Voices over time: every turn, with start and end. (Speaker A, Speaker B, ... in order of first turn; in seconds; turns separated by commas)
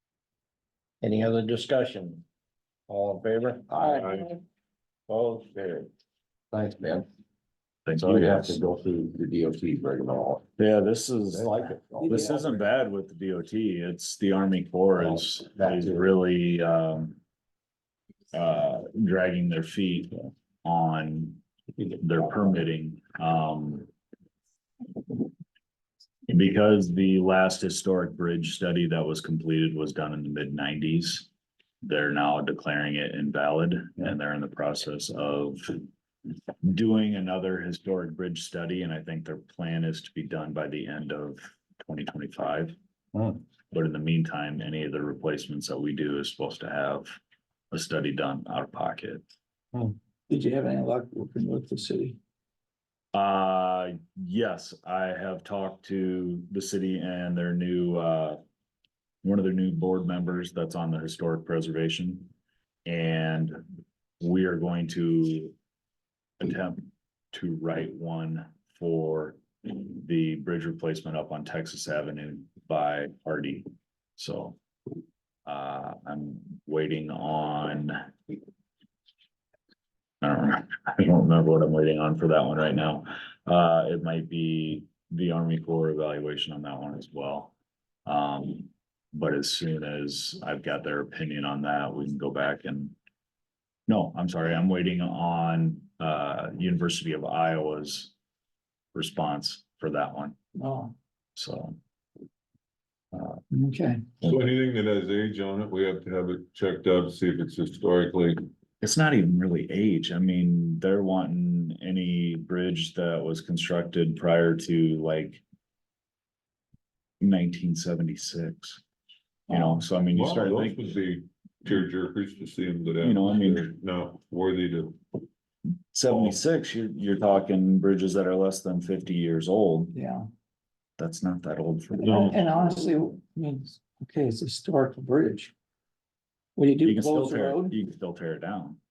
Speaker A: 1.0-2.2, Speaker A: 2.9-3.8, Speaker B: 3.7-4.1, Speaker C: 3.7-4.1, Speaker A: 5.1-5.9, Speaker B: 6.5-7.1, Speaker D: 7.8-8.6, Speaker B: 8.0-10.5, Speaker D: 10.6-17.2, Speaker B: 11.3-12.6, Speaker B: 15.0-16.1, Speaker D: 18.3-23.9, Speaker D: 26.3-31.3, Speaker D: 31.8-35.9, Speaker D: 36.6-42.8, Speaker B: 43.1-43.4, Speaker D: 43.7-47.2, Speaker D: 47.7-49.2, Speaker C: 50.3-52.2, Speaker D: 53.1-58.4, Speaker D: 59.2-62.3, Speaker D: 62.9-63.6, Speaker D: 64.2-65.5, Speaker D: 66.4-74.6, Speaker D: 75.5-78.1, Speaker D: 80.2-87.5, Speaker D: 88.0-93.0, Speaker D: 93.9-98.1, Speaker D: 98.9-100.4, Speaker C: 100.5-100.9, Speaker D: 101.3-101.8, Speaker D: 103.1-103.5, Speaker C: 103.5-104.0, Speaker E: 104.2-108.4, Speaker D: 108.8-115.4, Speaker D: 117.2-118.8, Speaker C: 119.5-119.8, Speaker D: 119.5-120.9, Speaker E: 120.1-125.2, Speaker D: 123.0-123.7, Speaker D: 125.9-129.9, Speaker E: 126.1-126.3, Speaker C: 129.9-130.3, Speaker D: 131.0-132.3, Speaker E: 132.0-132.4, Speaker C: 132.0-135.5, Speaker C: 136.6-137.8, Speaker D: 136.8-138.8